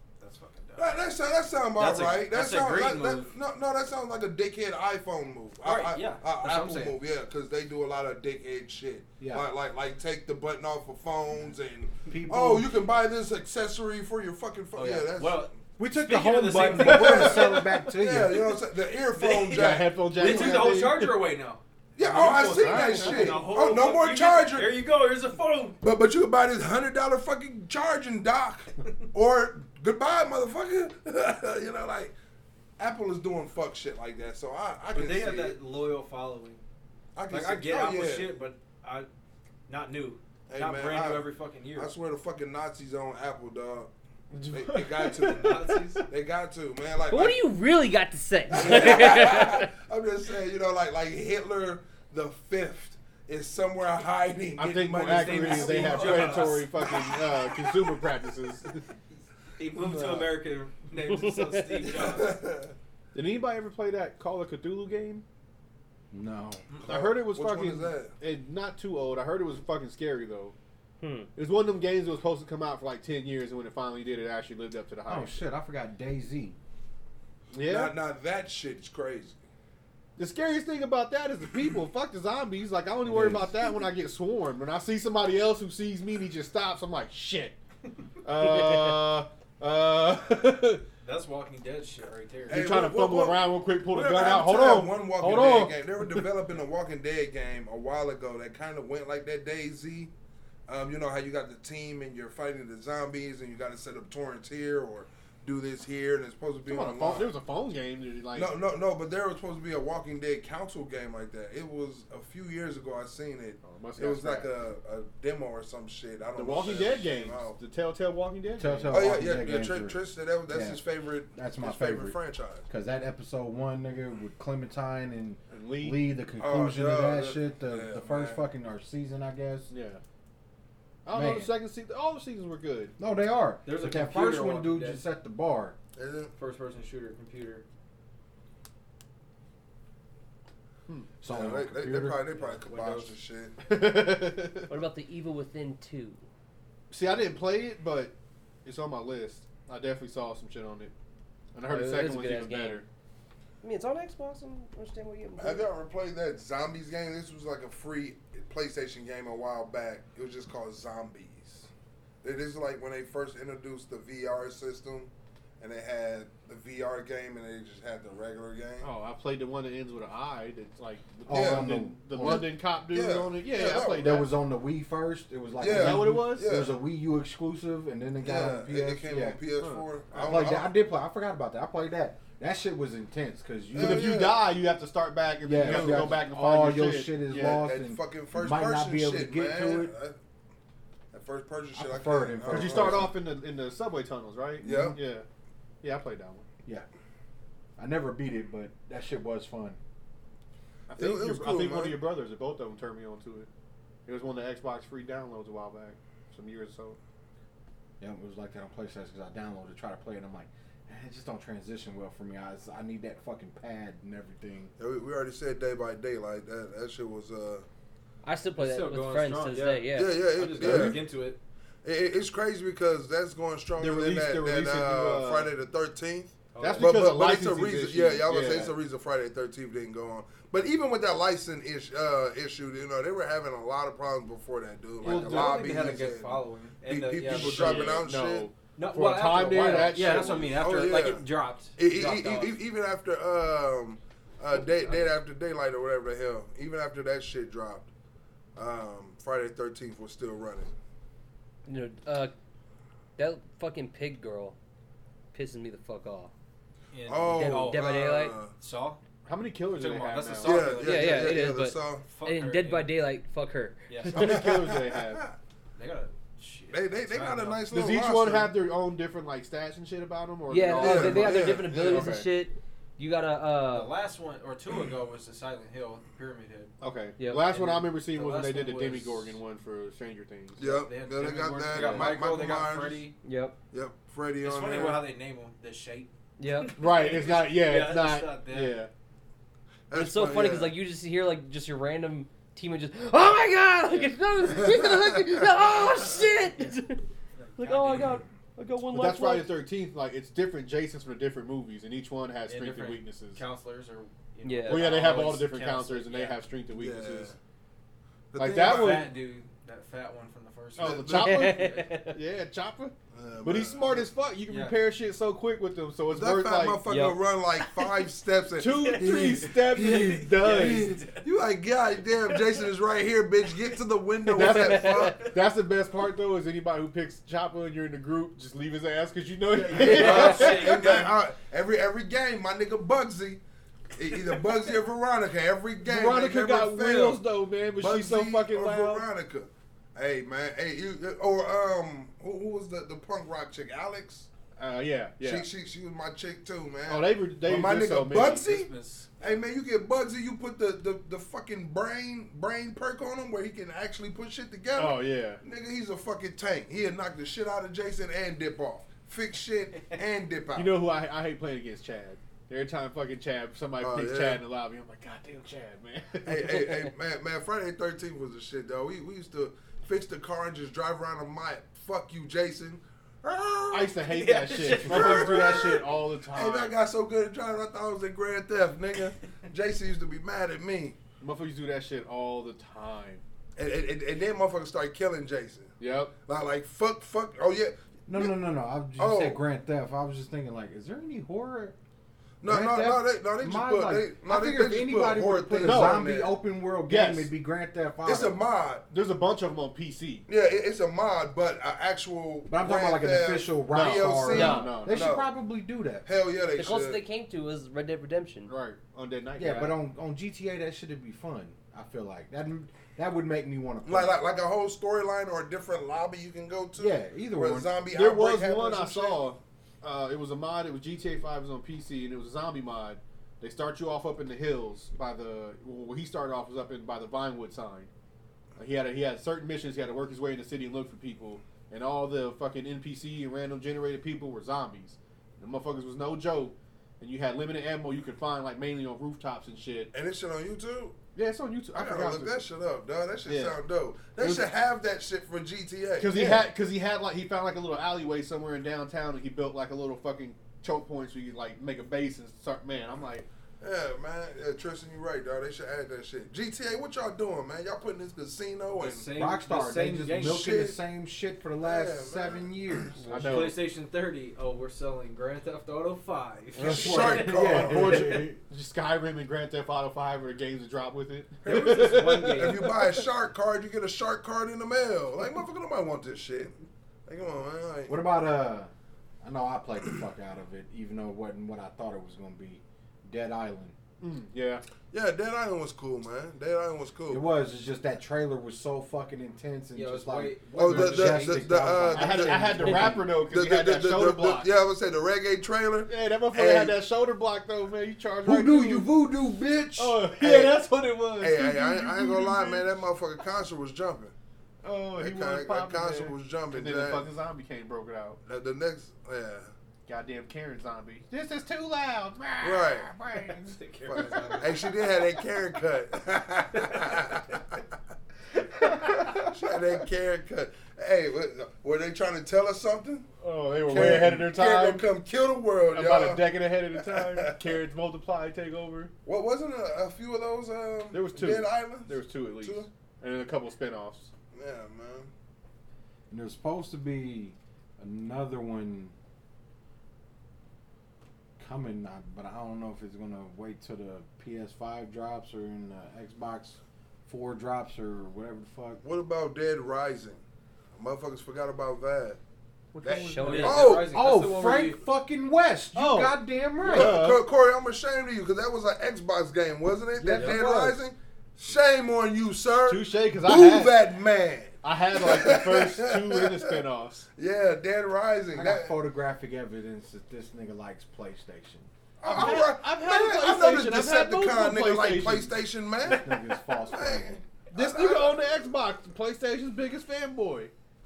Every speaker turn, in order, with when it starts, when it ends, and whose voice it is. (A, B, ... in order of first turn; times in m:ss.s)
0:00.2-0:01.0 A
0:00.8-0:15.5 B
0:01.8-0:03.3 A
0:05.6-0:07.0 A
0:09.2-0:09.4 C
0:12.1-0:12.7 C
0:14.7-0:17.8 A
0:15.8-0:18.5 C
0:16.6-0:20.7 B
0:19.0-0:25.8 A
0:19.5-0:21.2 D
0:22.0-0:24.8 B
0:22.3-0:23.4 D
0:25.8-0:32.1 B
0:32.8-0:35.6 B
0:34.9-0:36.6 A
0:37.1-0:38.3 B
0:37.3-0:39.1 A
0:39.7-0:41.9 A
0:40.5-0:43.9 B
0:44.3-0:46.0 D
0:44.5-0:47.4 B
0:45.2-0:46.0 A
0:47.1-0:49.7 E
0:48.5-0:57.1 B
0:54.6-0:58.8 D
0:55.0-0:57.5 A
0:59.6-1:02.4 A
0:59.8-1:00.2 D
1:01.1-1:01.8 E
1:01.9-1:02.8 B
1:03.1-1:05.2 D
1:06.1-1:06.6 C
1:06.8-1:08.2 B
1:06.8-1:10.5 D
1:11.0-1:11.3 E
1:11.4-1:15.4 D
1:15.0-1:16.6 C
1:17.5-1:18.0 D
1:17.6-1:19.4 B
1:20.2-1:27.6 D
1:23.0-1:23.5 C
1:28.2-1:30.8 D
1:31.0-1:32.6 A
1:32.5-1:36.3 D
1:32.5-1:40.1 B
1:40.7-1:47.3 B
1:46.6-1:48.5 D
1:48.3-1:57.6 B
1:53.6-1:54.5 D
1:56.3-1:58.9 D
1:58.6-2:00.0 C
1:58.9-2:02.6 B
2:00.5-2:09.7 C
2:05.5-2:06.1 D
2:06.4-2:08.4 B
2:09.7-2:10.0 D
2:11.0-2:12.9 D
2:11.1-2:11.5 C
2:13.0-2:15.8 C
2:13.6-2:15.0 A
2:16.0-2:16.3 B
2:16.4-2:17.6 A
2:20.9-2:21.1 D
2:21.2-2:22.2 C
2:21.3-2:23.6 B
2:22.3-2:23.2 A
2:23.6-2:24.7 D
2:24.7-2:26.2 E
2:26.9-2:28.1 D
2:28.6-2:30.9 D
2:31.5-2:32.8 D
2:31.7-2:32.8 E
2:33.6-2:35.7 E
2:35.4-2:41.7 B
2:42.2-2:48.9 B
2:48.8-2:54.3 D
2:51.3-2:52.6 C
2:51.3-2:54.3 B
2:54.0-2:59.4 C
2:55.6-2:56.8 B
2:55.6-2:56.5 D
2:58.2-3:00.7 B
2:59.6-3:00.6 D
3:00.2-3:04.2 C
3:03.7-3:04.6 B
3:03.7-3:07.6 D
3:05.4-3:09.9 C
3:05.6-3:06.1 B
3:07.4-3:10.2 B
3:11.1-3:13.2 B
3:11.7-3:13.1 C
3:12.5-3:15.2 D
3:14.6-3:15.0 B
3:15.8-3:16.4 D
3:17.8-3:19.8 C
3:20.9-3:23.5 D
3:20.9-3:22.0 B
3:24.0-3:27.0 D
3:28.0-3:34.7 C
3:34.8-3:37.7 B
3:38.2-3:40.3 E
3:38.6-3:41.4 A
3:39.9-3:41.0 B
3:41.8-3:58.5 B
3:43.8-3:45.5 D
3:46.5-3:47.0 A
3:46.6-3:48.7 D
3:55.0-3:55.9 D
3:55.0-3:58.1 A
3:57.3-4:00.6 D
3:58.8-4:02.6 A
4:00.5-4:07.9 B
4:04.6-4:05.1 A
4:08.6-4:10.7 B
4:11.6-4:12.3 E
4:13.2-4:14.6 E
4:15.3-4:16.3 E
4:16.9-4:17.9 A
4:17.1-4:18.5 B
4:17.4-4:18.4 E
4:18.6-4:19.0 A
4:19.2-4:20.8 D
4:19.7-4:22.9 A
4:20.4-4:22.0 B
4:20.8-4:24.5 E
4:23.9-4:24.2 A
4:24.1-4:25.2 D
4:24.2-4:25.3 B
4:25.7-4:27.6 A
4:26.7-4:28.6 B
4:27.7-4:32.3 D
4:30.5-4:33.9 E
4:30.8-4:32.2 B
4:33.7-4:36.7 A
4:36.8-4:40.6 D
4:37.2-4:37.4 E
4:37.5-4:39.4 A
4:40.6-4:43.0 B
4:40.6-4:43.1 A
4:41.8-4:42.1 D
4:41.8-4:42.1 E
4:43.2-4:43.6 E
4:43.7-4:45.0 B
4:44.4-4:48.8 A
4:46.4-4:46.7 E
4:46.8-4:48.9 D
4:49.9-4:50.8 B
4:49.9-4:57.0 E
4:54.5-4:55.4 B
4:57.4-4:58.2 A
4:57.6-4:59.5 E
4:58.9-5:03.4 D
5:02.5-5:06.4 A
5:04.4-5:05.2 E
5:04.6-5:07.3 D
5:06.7-5:07.4 B
5:08.3-5:09.1 B
5:08.4-5:09.1 D
5:08.5-5:12.0 A
5:10.8-5:16.8 D
5:10.8-5:11.5 B
5:11.1-5:12.2 E
5:13.1-5:14.1 B
5:14.5-5:14.8 A
5:16.1-5:25.3 B
5:16.9-5:17.2 E
5:18.5-5:20.9 D
5:18.7-5:19.2 A
5:19.7-5:21.2 A
5:24.2-5:31.0 D
5:24.5-5:25.0 E
5:29.5-5:31.1 A
5:29.7-5:33.4 B
5:29.8-5:30.4 E
5:33.9-5:37.2 B
5:35.8-5:39.1 D
5:37.8-5:44.3 B
5:44.6-5:45.5 D
5:45.2-6:00.8 B
5:46.8-5:48.4 D
5:48.1-5:49.3 A
5:54.7-5:55.4 D
6:00.5-6:06.8 D
6:03.8-6:04.4 B
6:06.2-6:14.0 B
6:13.7-6:16.7 D
6:14.1-6:15.7 A
6:14.6-6:21.0 B
6:21.2-6:23.2 D
6:23.6-6:28.3 B
6:25.8-6:26.1 D
6:28.1-6:31.8 C
6:29.0-6:29.4 B
6:32.4-6:36.4 B
6:32.4-6:38.4 C
6:35.6-6:36.1 D
6:36.9-6:37.3 D
6:38.0-6:38.9 B
6:38.9-6:40.2 D
6:40.3-6:45.3 B
6:42.5-6:46.0 C
6:43.7-6:45.1 D
6:44.3-6:44.7 E
6:46.0-6:47.0 B
6:46.6-6:48.5 E
6:48.5-6:49.8 D
6:49.4-6:54.2 C
6:53.8-6:59.3 B
6:56.8-6:57.7 C
6:57.9-7:07.9 D
7:08.6-7:19.9 D
7:19.9-7:21.0 B
7:21.1-7:22.4 D
7:21.7-7:26.4 B
7:23.2-7:23.6 D
7:24.2-7:24.4 D
7:26.0-7:33.2 D
7:33.6-7:39.1 B
7:38.7-7:40.6 A
7:39.1-7:43.1 C
7:40.1-7:40.8 B
7:41.6-7:42.9 B
7:43.0-7:43.5 E
7:43.1-7:43.6 D
7:43.1-7:47.3 A
7:46.6-7:48.3 C
7:46.6-7:48.1 B
7:46.6-7:52.9 D
7:51.4-7:52.6 E
7:51.5-7:56.5 B
7:57.0-7:58.0 B
7:57.9-8:03.8 C
8:04.0-8:04.6 D
8:04.9-8:07.2 B
8:07.1-8:13.0 C
8:09.7-8:11.7 A
8:10.5-8:16.8 B
8:11.9-8:14.5 D
8:12.7-8:12.9 E
8:15.9-8:18.9 D
8:18.2-8:19.9 C
8:19.7-8:20.6 B
8:19.8-8:22.7 D
8:21.2-8:24.1 B
8:24.6-8:28.2 D
8:25.0-8:27.1 B
8:28.2-8:29.5 B
8:29.8-8:34.5 D
8:32.4-8:32.9 B
8:33.4-8:34.7 A
8:33.9-8:37.6 B
8:38.3-8:39.5 D
8:39.0-8:43.1 B
8:43.2-8:44.9 D
8:43.6-8:47.5 B
8:45.7-8:48.9 D
8:49.0-8:52.7 B
8:50.9-8:54.1 D
8:54.3-8:55.1 B
8:56.1-8:58.9 C
9:01.4-9:08.8 C
9:08.8-9:10.2 B
9:10.7-9:12.2 B
9:12.7-9:13.6 D
9:12.8-9:13.9 B
9:13.0-9:13.7 E
9:13.2-9:14.8 A
9:13.8-9:17.0 C
9:15.7-9:17.2 D
9:16.7-9:26.6 B
9:19.9-9:20.8 C
9:22.6-9:23.8 D
9:24.6-9:27.1 D
9:27.1-9:28.7 B
9:28.3-9:32.4 C
9:32.0-9:36.1 B
9:32.0-9:35.3 D
9:35.8-9:37.3 C
9:36.7-9:38.4 B
9:37.5-9:40.5 D